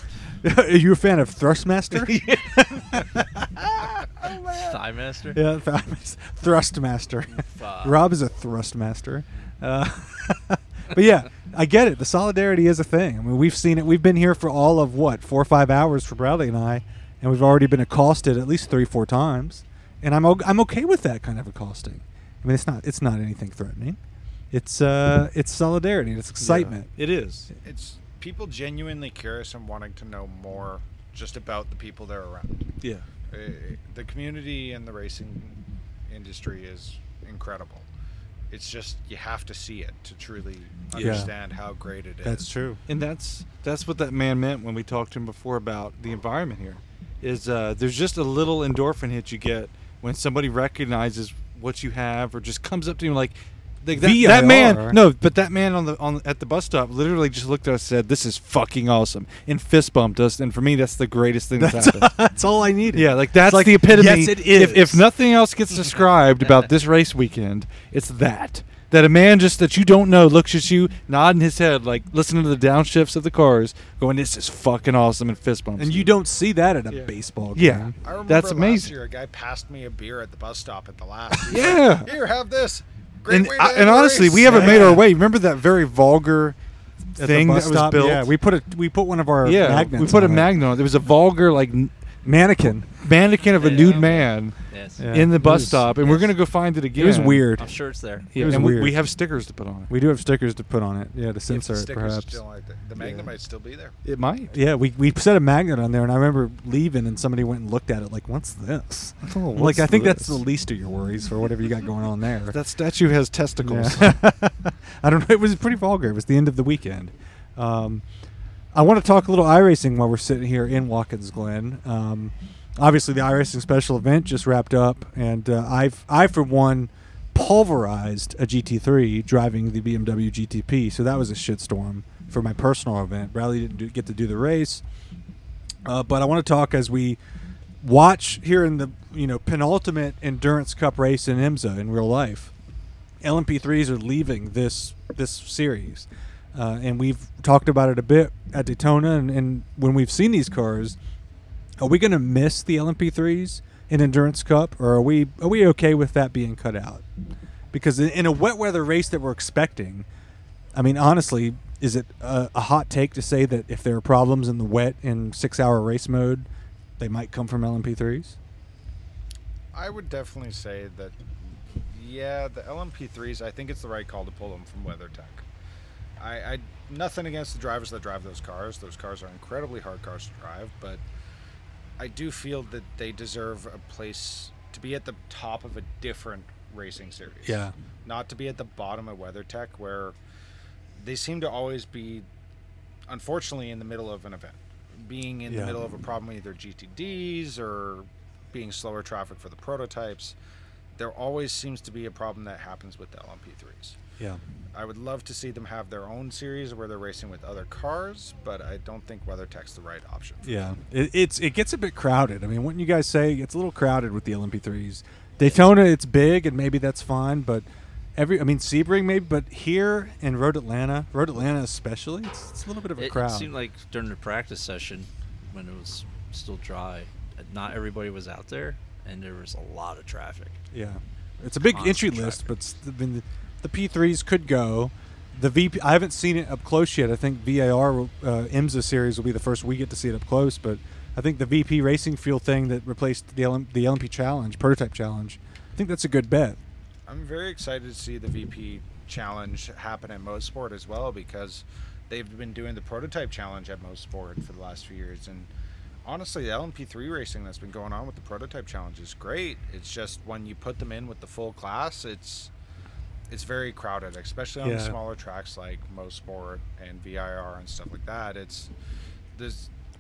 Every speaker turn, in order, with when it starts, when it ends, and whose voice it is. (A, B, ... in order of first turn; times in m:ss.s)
0:00.4-0:04.8 A
0:04.4-0:05.4 B
0:05.3-0:24.0 A
0:07.3-0:08.0 B
0:24.5-0:26.9 A
0:26.4-0:27.5 C
0:27.6-0:32.6 D
0:32.8-0:33.0 C
0:33.3-0:37.9 D
0:38.5-0:42.5 D
0:40.9-0:41.3 C
0:41.0-0:41.3 A
0:42.2-0:42.8 A
0:42.9-1:02.1 C
0:53.9-0:55.0 A
1:01.6-1:05.0 A
1:02.9-1:16.1 C
1:15.8-1:17.9 A
1:16.9-1:18.9 C
1:18.0-1:25.0 D
1:21.5-1:22.2 C
1:23.3-1:26.6 C
1:24.4-1:25.0 A
1:27.2-1:28.3 C
1:27.2-1:30.5 A
1:29.4-1:31.9 C
1:32.2-1:32.9 A
1:32.6-1:34.6 C
1:33.6-1:35.1 B
1:35.0-1:35.9 A
1:35.1-1:37.6 C
1:36.0-1:36.3 B
1:36.9-1:37.7 A
1:37.6-1:38.3 B
1:38.3-1:39.9 C
1:38.3-1:39.0 A
1:39.9-1:42.4 A
1:41.5-1:43.9 D
1:43.0-1:43.2 A
1:44.0-1:44.6 C
1:44.5-1:52.6 A
1:49.2-1:50.4 C
1:52.5-1:54.2 C
1:53.6-1:58.0 A
1:58.7-2:14.8 A
2:15.8-2:17.2 A
2:17.8-2:22.5 A
2:23.2-2:31.0 A
2:31.8-2:37.0 A
2:37.7-2:40.0 A
2:40.7-2:46.5 A
2:47.0-2:48.4 A
2:49.7-2:55.4 D
2:56.2-3:01.0 D
3:02.0-3:10.2 D
3:07.4-3:07.7 A
3:11.0-3:12.2 D
3:13.1-3:20.4 D
3:15.5-3:15.8 A
3:21.0-3:24.0 D
3:24.7-3:30.5 D
3:30.4-3:43.5 A
3:35.4-3:35.7 B
3:43.0-3:50.6 B
3:50.7-4:06.6 A
3:51.6-3:52.5 B
4:07.1-4:15.5 D
4:16.0-4:22.5 D
4:23.3-4:28.7 D
4:24.6-4:25.0 A
4:29.3-4:29.7 D